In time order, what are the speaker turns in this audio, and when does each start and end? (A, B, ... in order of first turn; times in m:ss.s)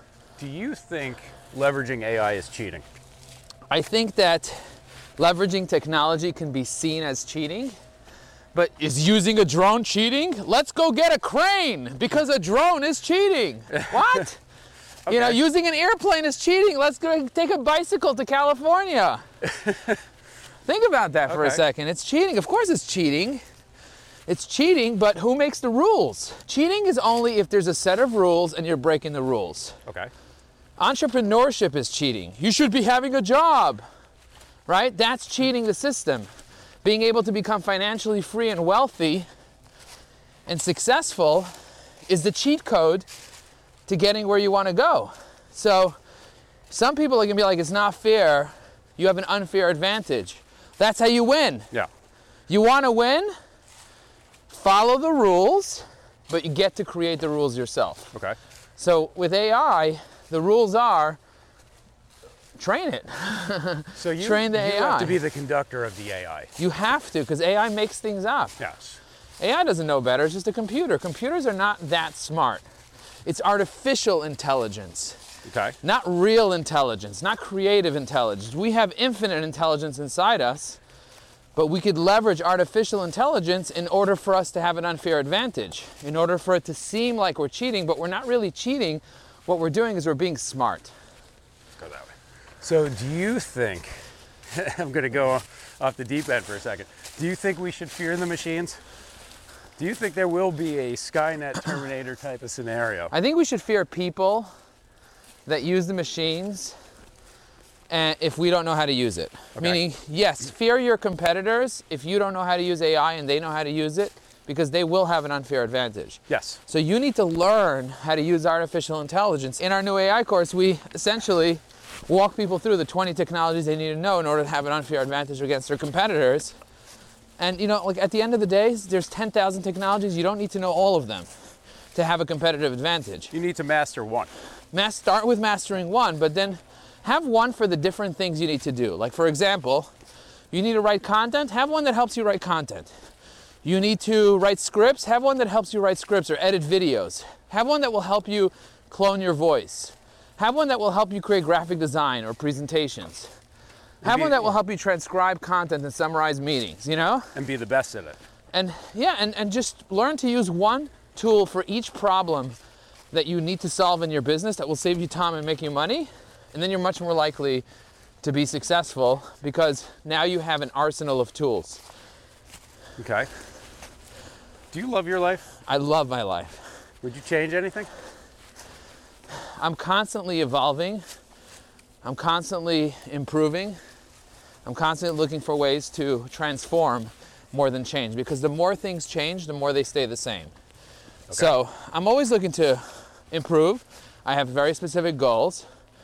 0:00.4-0:02.9 A
0:03.7-0:07.8 B
0:08.5-0:14.4 B
0:15.1-0:15.4 A
0:15.1-0:19.2 B
0:19.5-0:20.0 A
0:20.6-0:23.4 B
0:21.3-0:21.6 A
0:24.3-0:29.8 B
0:30.8-0:33.8 B
0:34.7-0:36.3 B
0:36.8-0:39.3 B
0:40.5-0:41.5 B
0:42.1-0:43.1 B
0:43.9-0:46.0 B
0:46.7-0:51.7 B
0:52.5-0:53.3 B
0:54.5-0:58.1 B
0:58.8-1:01.2 B
1:02.6-1:05.2 B
1:04.0-1:06.5 A
1:06.6-1:08.6 B
1:08.6-1:09.0 A
1:09.4-1:12.6 B
1:13.2-1:15.2 B
1:15.4-1:15.8 A
1:15.8-1:20.8 B
1:21.6-1:31.0 B
1:31.8-1:38.8 A
1:39.8-1:43.1 A
1:43.1-1:44.5 B
1:45.5-1:46.8 B
1:47.9-2:06.6 B
1:49.6-1:49.8 A
1:56.3-1:56.6 A
2:07.4-2:11.3 B
2:11.9-2:13.3 B
2:13.3-2:14.3 A
2:14.7-2:19.9 B
2:20.5-2:22.9 B
2:23.6-2:33.3 B
2:34.0-2:34.5 A
2:34.0-2:37.3 B
2:37.4-2:38.2 A
2:38.5-2:42.6 B
2:43.1-2:47.6 B
2:48.2-2:51.8 B
2:53.0-2:53.3 A
2:54.7-2:55.5 A
2:55.7-2:56.7 B
2:57.0-2:57.9 A
2:59.3-3:01.0 B
3:02.0-3:03.8 B
3:04.6-3:10.5 B
3:11.3-3:15.7 B